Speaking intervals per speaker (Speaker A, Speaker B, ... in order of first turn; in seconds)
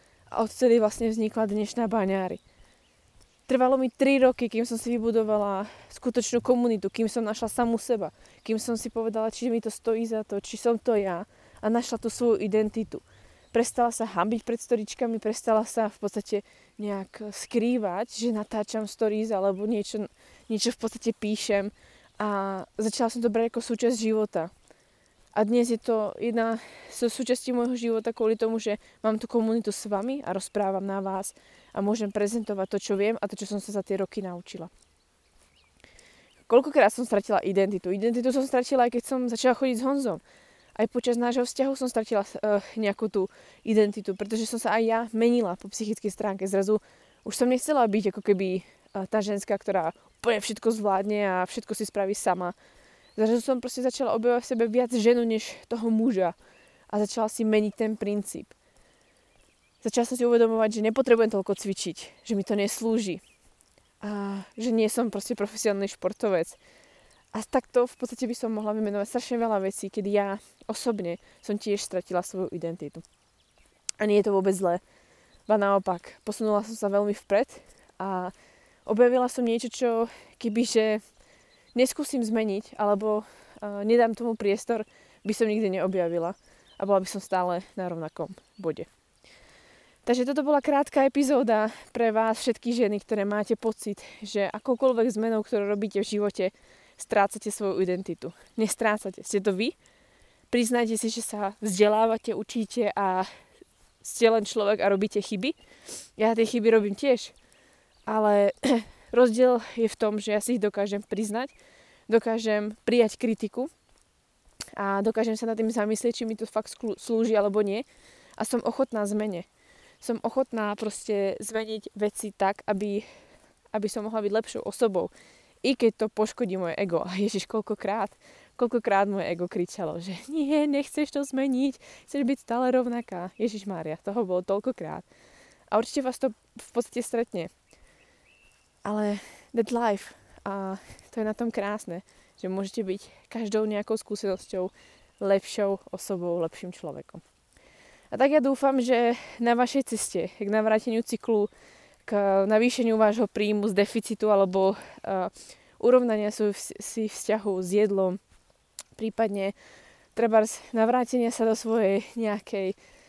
Speaker A: 0.3-2.4, 3.5-24.5, 25.4-34.7, 36.5-40.2, 40.8-52.5, 53.2-56.3, 56.9-58.5, 59.8-63.2, 64.0-66.6, 67.3-73.0, 74.0-74.8, 75.5-78.3, 78.8-81.0, 81.7-88.9, 90.0-99.8, 100.5-103.3, 104.0-105.5, 106.2-107.3, 108.1-111.5, 112.1-113.7, 114.8-117.8, 118.4-119.5, 120.0-123.0, 123.7-125.1, 125.6-135.1, 135.7-137.5, 138.8-147.2, 148.1-151.5, 152.1-158.2, 158.9-159.5, 160.1-162.8